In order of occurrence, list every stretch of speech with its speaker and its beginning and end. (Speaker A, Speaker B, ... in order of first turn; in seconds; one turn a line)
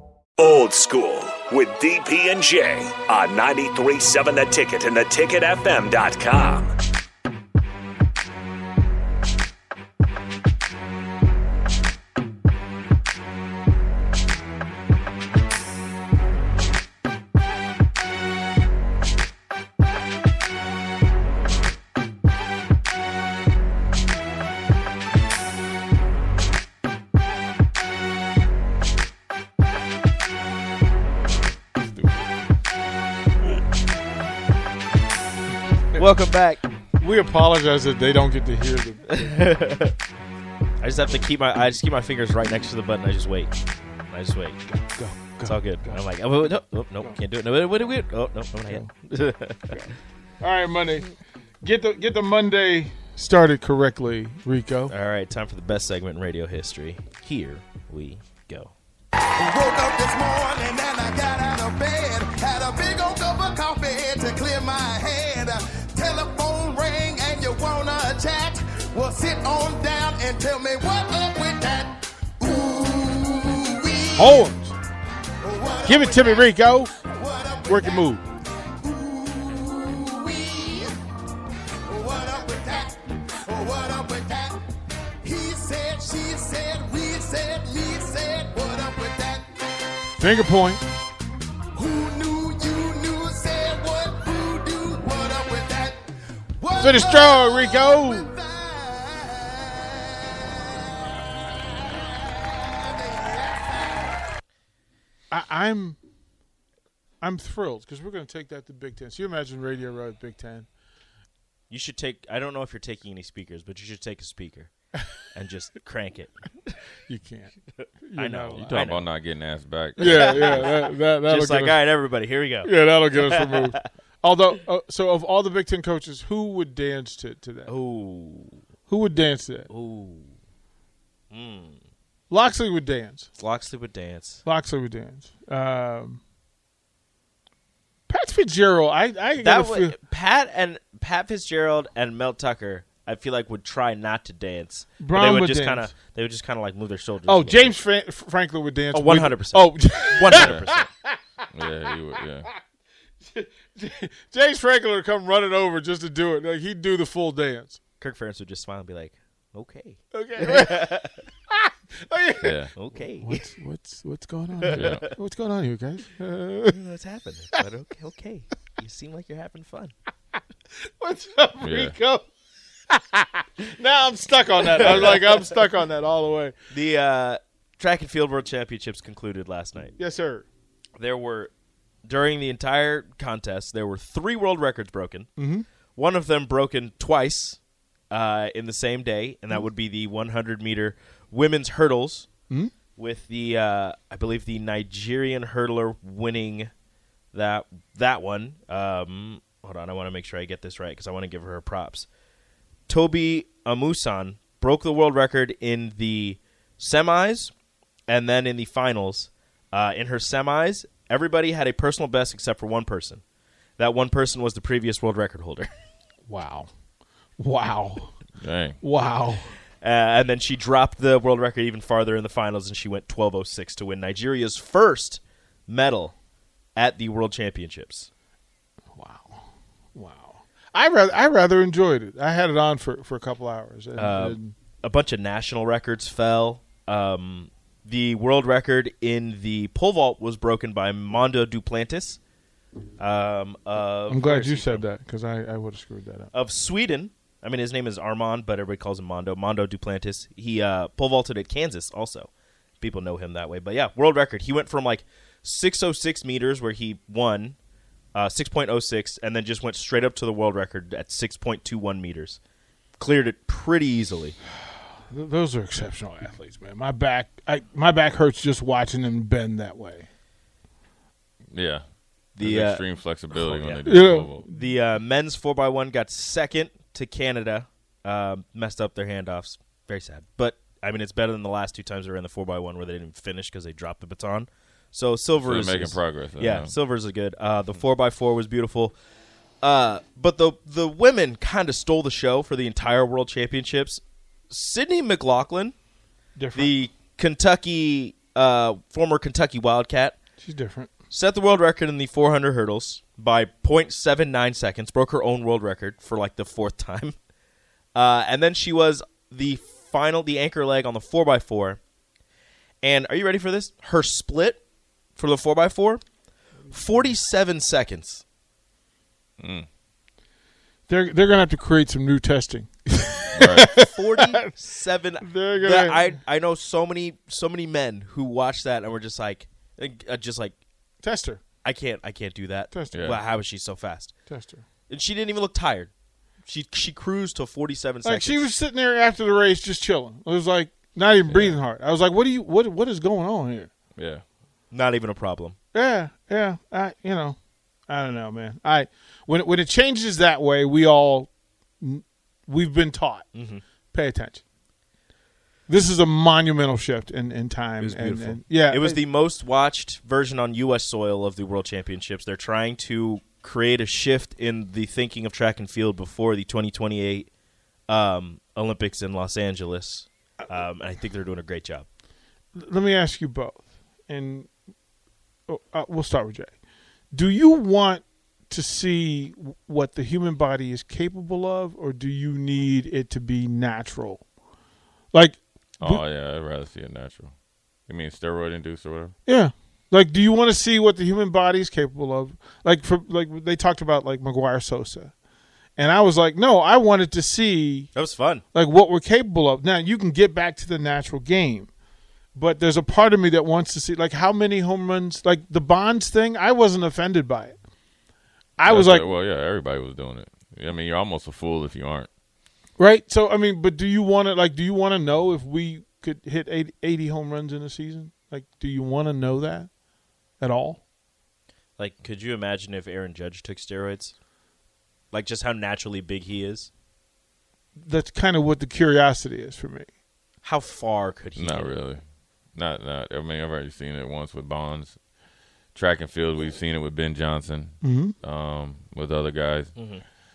Speaker A: 0.4-6.7
Speaker B: 31.8-32.3
Speaker C: 35.9-36.6
Speaker B: 37.0-39.5
Speaker C: 39.1-39.9
Speaker C: 40.8-43.5
Speaker C: 44.1-44.6
Speaker B: 44.7-46.0
Speaker C: 45.4-49.9
Speaker B: 48.6-48.9
Speaker B: 49.7-54.9
Speaker C: 54.9-58.8
Speaker D: 59.4-74.4
Speaker B: 74.2-74.8
Speaker D: 75.4-78.1
Speaker B: 75.8-76.9
Speaker B: 77.6-78.2
Speaker D: 78.8-81.0
Speaker D: 81.9-84.6
Speaker D: 85.2-89.5
Speaker B: 90.2-90.8
Speaker D: 91.7-96.0
Speaker D: 96.6-100.4
Speaker B: 96.8-98.3
Speaker D: 101.9-104.1
Speaker B: 105.3-106.0
Speaker B: 107.2-110.7
Speaker C: 111.7-114.7
Speaker C: 115.2-116.8
Speaker B: 117.1-118.9
Speaker C: 117.8-119.1
Speaker E: 118.6-120.7
Speaker B: 120.0-121.9
Speaker C: 120.0-123.7
Speaker B: 122.6-127.7
Speaker C: 127.7-128.6
Speaker B: 128.9-129.7
Speaker C: 129.7-130.3
Speaker C: 131.3-131.8
Speaker B: 132.3-133.3
Speaker C: 133.4-134.4
Speaker B: 134.4-136.2
Speaker B: 138.1-139.9
Speaker C: 139.4-147.8
Speaker B: 145.0-145.9
Speaker B: 147.2-151.5
Speaker C: 148.9-150.9
Speaker E: 150.3-150.6
Speaker E: 151.5-152.5
Speaker B: 153.3-157.8
Speaker C: 158.0-161.2
Speaker B: 160.1-166.8
Speaker E: 162.4-162.7
Speaker C: 162.7-163.4
Speaker C: 164.6-165.1
Speaker E: 164.7-165.1
Speaker C: 166.7-169.9
Speaker B: 170.9-172.3
Speaker E: 171.6-171.9
Speaker B: 172.9-176.6
Speaker C: 174.6-175.5
Speaker C: 176.7-179.9
Speaker B: 180.0-180.5
Speaker C: 181.0-181.5
Speaker C: 182.0-185.3
Speaker B: 185.4-185.7
Speaker C: 185.9-192.3
Speaker C: 192.9-196.7
Speaker C: 197.3-202.1
Speaker C: 202.9-207.5
Speaker C: 208.1-213.2
Speaker C: 213.8-215.7
Speaker B: 216.3-216.7
Speaker B: 217.4-218.2
Speaker E: 218.4-218.8
Speaker B: 218.8-219.5
Speaker C: 219.8-226.1
Speaker C: 226.8-228.1
Speaker B: 228.9-234.5
Speaker C: 234.0-242.2
Speaker C: 243.0-244.8
Speaker B: 244.1-246.3
Speaker C: 246.3-257.6
Speaker C: 258.1-262.4
Speaker C: 263.0-264.4
Speaker B: 265.1-270.1
Speaker E: 271.5-274.4
Speaker C: 272.3-288.9
Speaker B: 273.8-274.7
Speaker E: 285.4-286.7
Speaker C: 289.6-295.8
Speaker B: 296.4-296.7
Speaker C: 296.5-300.2
Speaker B: 300.4-300.9
Speaker C: 301.1-307.1
Speaker C: 307.9-311.8
Speaker C: 312.8-314.6
Speaker C: 315.1-316.1
Speaker C: 316.7-318.2
Speaker E: 319.4-319.7
Speaker B: 320.9-324.5
Speaker E: 323.4-323.7
Speaker C: 323.8-330.6
Speaker B: 325.2-326.1
Speaker B: 331.0-331.4
Speaker C: 331.6-334.1
Speaker B: 332.7-333.1
Speaker E: 332.9-333.2
Speaker B: 334.3-334.6
Speaker C: 334.9-335.9
Speaker C: 336.4-338.5
Speaker B: 338.0-343.7
Speaker E: 341.3-341.6
Speaker E: 343.9-344.2
Speaker C: 344.7-345.6
Speaker B: 345.7-354.4
Speaker C: 353.3-353.6
Speaker B: 355.7-359.0
Speaker C: 357.8-367.3
Speaker C: 367.9-371.9
Speaker B: 372.5-374.5
Speaker B: 375.5-376.6
Speaker B: 377.1-384.3
Speaker B: 385.1-386.0
Speaker E: 385.8-389.1
Speaker B: 389.2-395.1
Speaker B: 395.8-401.7
Speaker C: 397.9-398.4
Speaker B: 402.3-407.6
Speaker B: 408.6-409.1
Speaker E: 408.6-412.1
Speaker B: 412.8-419.7
Speaker B: 420.4-420.9
Speaker C: 421.8-424.2
Speaker C: 425.1-426.7
Speaker B: 427.8-429.9
Speaker C: 430.4-431.8
Speaker E: 431.4-435.0
Speaker E: 435.7-439.9
Speaker B: 437.8-438.1
Speaker C: 439.8-440.0